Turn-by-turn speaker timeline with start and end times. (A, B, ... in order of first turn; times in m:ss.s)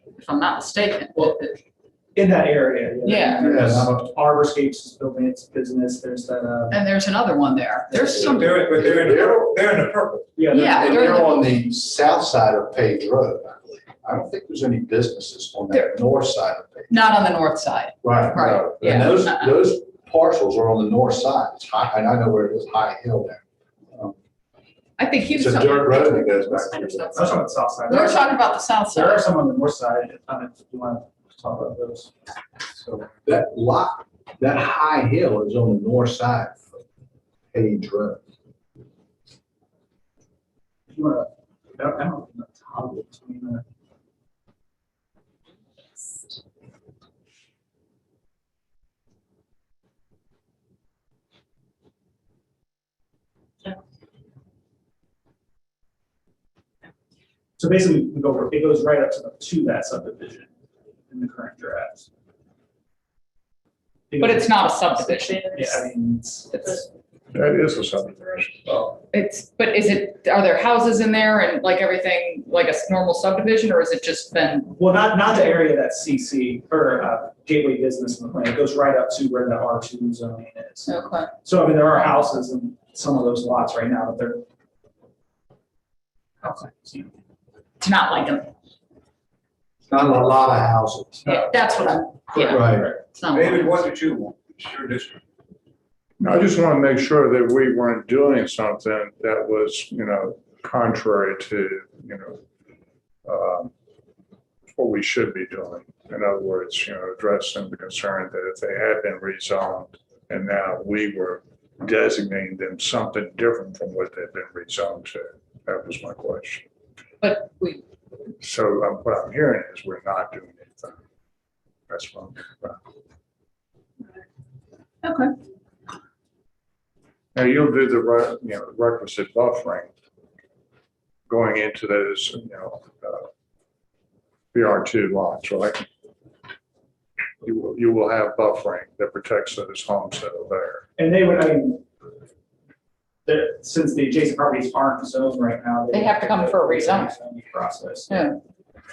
0:00.2-0:01.6 A
0:02.1-0:06.8 B
0:03.0-0:03.5 A
0:03.4-0:03.9 C
0:06.7-0:08.6 A
0:07.9-0:08.2 B
0:08.0-0:10.4 D
0:08.6-0:09.6 C
0:10.4-0:11.2 B
0:10.5-0:11.4 A
0:10.6-0:16.9 C
0:16.9-0:19.6 A
0:18.0-0:24.1 C
0:25.0-0:29.2 A
0:25.3-0:27.4 C
0:27.1-0:32.1 B
0:32.7-0:33.1 D
0:33.2-0:36.8 C
0:37.5-0:38.2 C
0:40.9-0:43.6 B
0:57.6-1:00.5 B
1:01.1-1:02.1 B
1:04.1-1:06.9 B
1:04.2-1:05.8 A
1:06.5-1:06.8 A
1:07.3-1:08.7 E
1:08.9-1:14.7 A
1:14.7-1:24.4 B
1:20.9-1:21.3 A
1:26.4-1:27.0 B
1:27.8-1:28.5 A
1:29.9-1:31.2 C
1:31.2-1:33.8 A
1:31.2-1:33.0 B
1:32.5-1:32.9 C
1:33.3-1:35.2 D
1:36.2-1:42.4 E
1:43.2-1:43.7 E
1:44.7-1:56.6 E
1:57.2-1:57.8 A
1:58.4-2:00.9 E
2:01.9-2:02.8 E
2:05.0-2:05.3 A
2:07.3-2:09.9 E
2:11.3-2:13.3 E
2:14.5-2:15.8 E
2:17.4-2:20.8 E
2:21.0-2:21.8 B
2:23.2-2:28.4 B
2:25.9-2:27.1 A
2:28.1-2:28.4 A